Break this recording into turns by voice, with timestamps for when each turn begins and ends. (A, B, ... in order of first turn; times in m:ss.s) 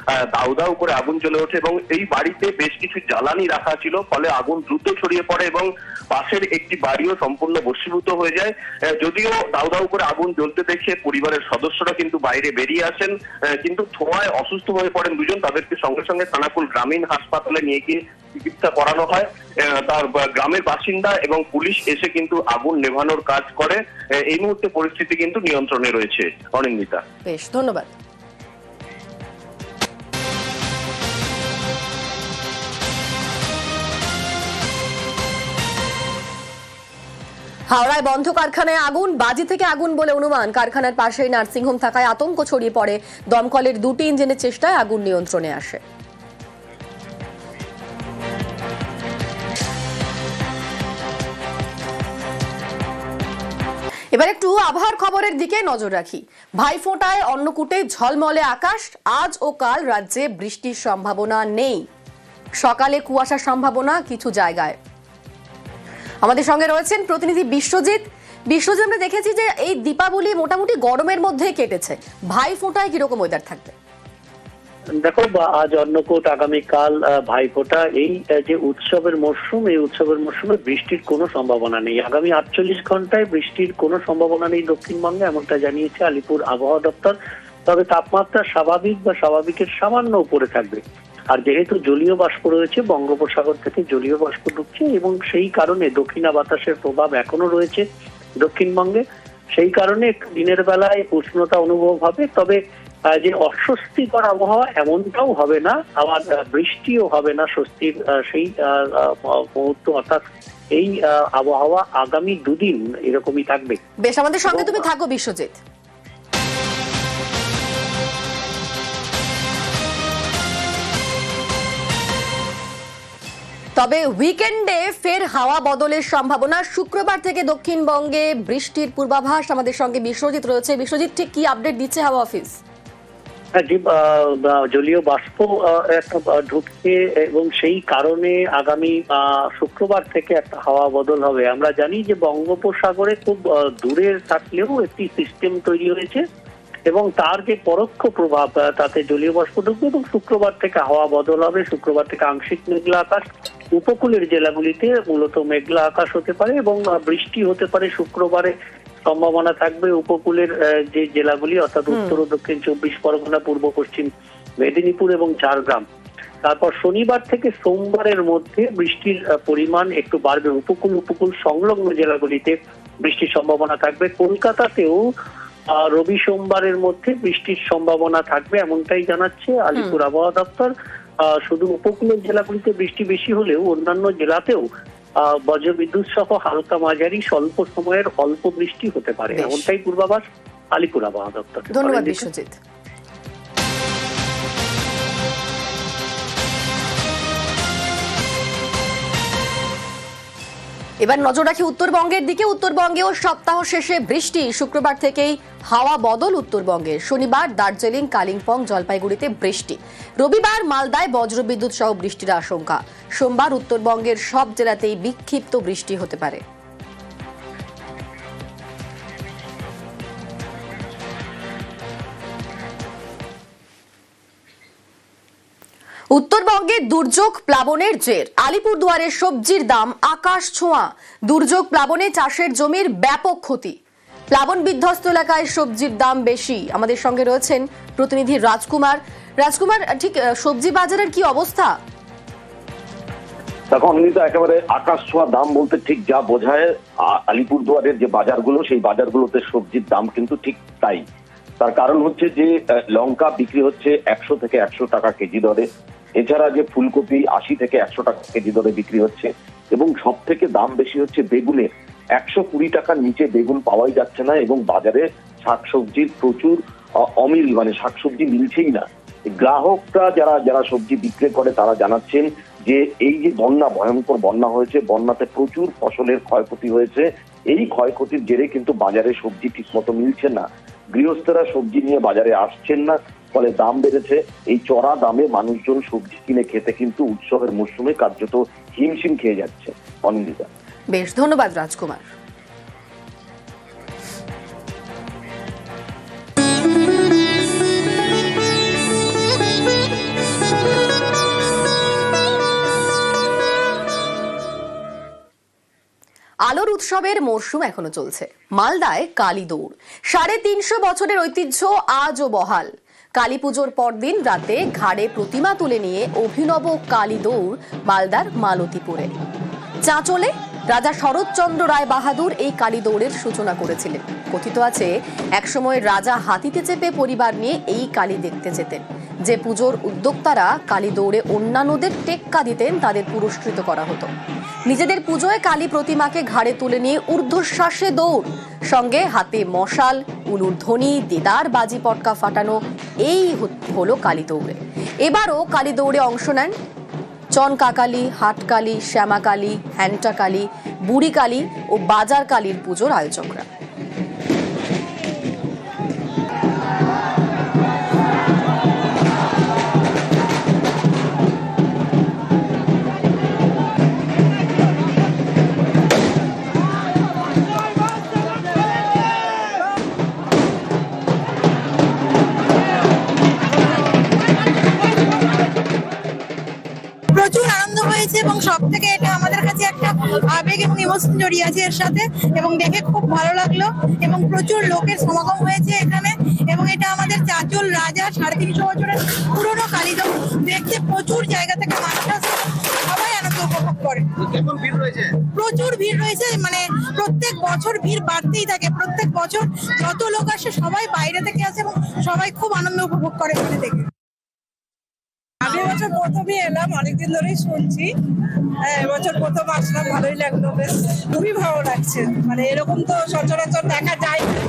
0:00.3-0:27.0 A
0:27.2-0:27.9 B
0:37.7-0:45.8 B
0:54.1-1:01.8 B
1:02.6-1:04.8 B
1:06.2-1:13.7 B
1:15.1-1:27.2 C
1:27.7-1:30.8 C
1:31.3-1:37.8 C
1:38.4-1:39.0 C
1:39.6-1:42.6 C
1:43.2-1:50.2 C
1:50.8-1:53.8 C
1:54.0-1:55.6 B
1:54.5-1:54.9 C
2:03.8-2:12.6 B
2:13.6-2:26.2 C
2:26.9-2:38.5 C
2:39.1-2:44.1 C
2:41.9-2:42.2 B
2:44.6-2:45.8 C
2:46.4-2:55.0 C
2:55.8-3:00.7 C
3:01.5-3:04.6 C
3:05.5-3:10.2 C
3:09.3-3:09.7 B
3:10.8-3:12.3 C
3:11.7-3:12.6 B
3:21.0-3:36.4 B
3:46.2-3:53.8 B
3:54.3-4:01.7 B
4:03.7-4:11.0 D
4:11.6-4:50.5 D
4:50.9-4:52.1 B
5:06.5-5:19.1 B
5:19.8-5:34.1 B
5:34.7-5:46.6 B
5:47.4-5:53.5 B
6:17.1-6:34.1 E
6:35.3-6:43.8 E
6:45.5-6:47.8 F
6:48.7-6:54.2 F